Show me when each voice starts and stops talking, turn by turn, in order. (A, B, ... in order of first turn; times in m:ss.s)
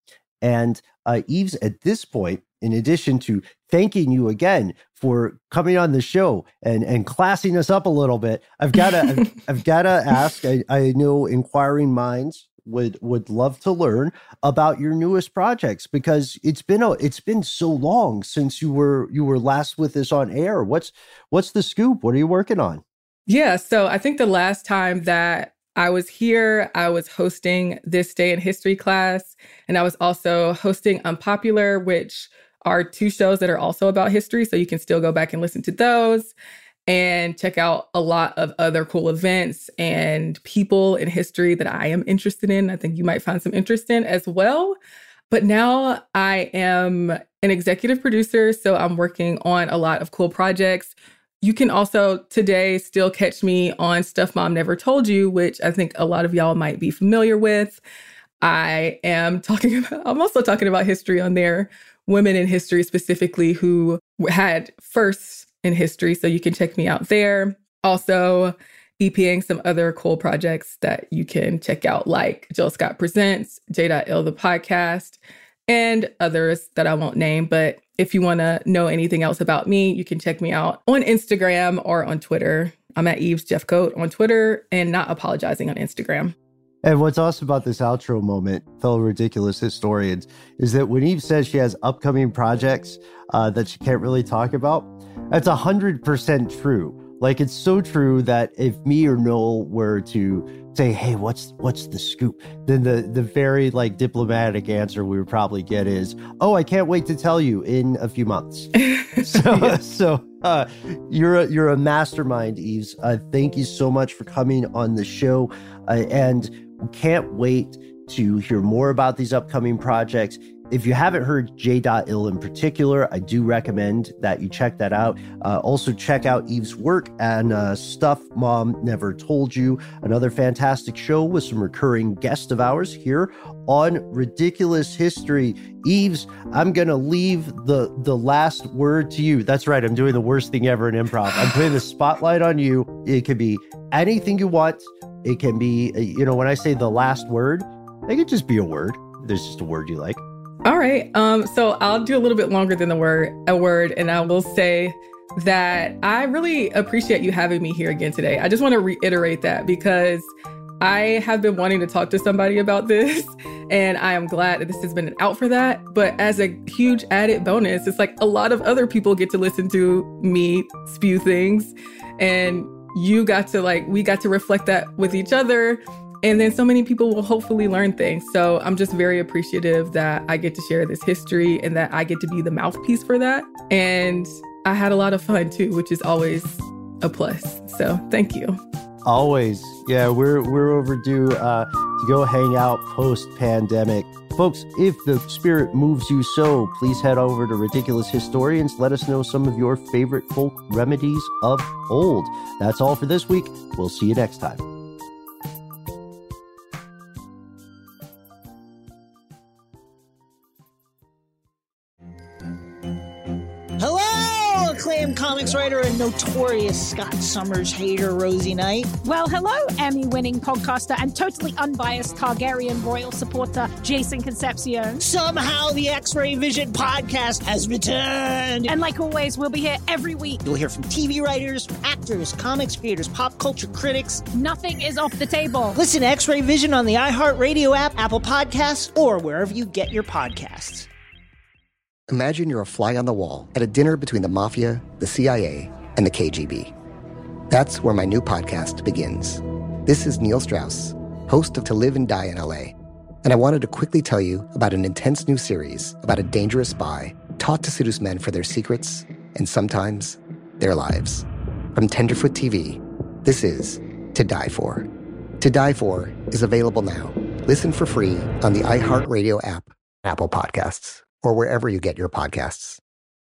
0:00.4-0:22.8 A
0:08.9-0:09.3 B
0:23.3-0:36.3 B
0:36.9-0:44.8 B
0:45.3-0:57.8 B
0:58.4-1:26.3 B
1:26.8-2:30.2 A
1:48.8-1:49.8 B
2:30.6-3:08.6 B
3:09.0-3:24.6 A
3:33.8-3:38.9 C
3:39.0-3:45.0 D
3:45.0-3:48.7 C
3:48.6-3:50.4 D
3:50.4-3:54.2 C
3:54.3-3:55.8 D
3:55.8-4:00.9 C
4:02.1-4:06.7 E
4:07.5-4:24.9 E
4:25.4-4:32.8 E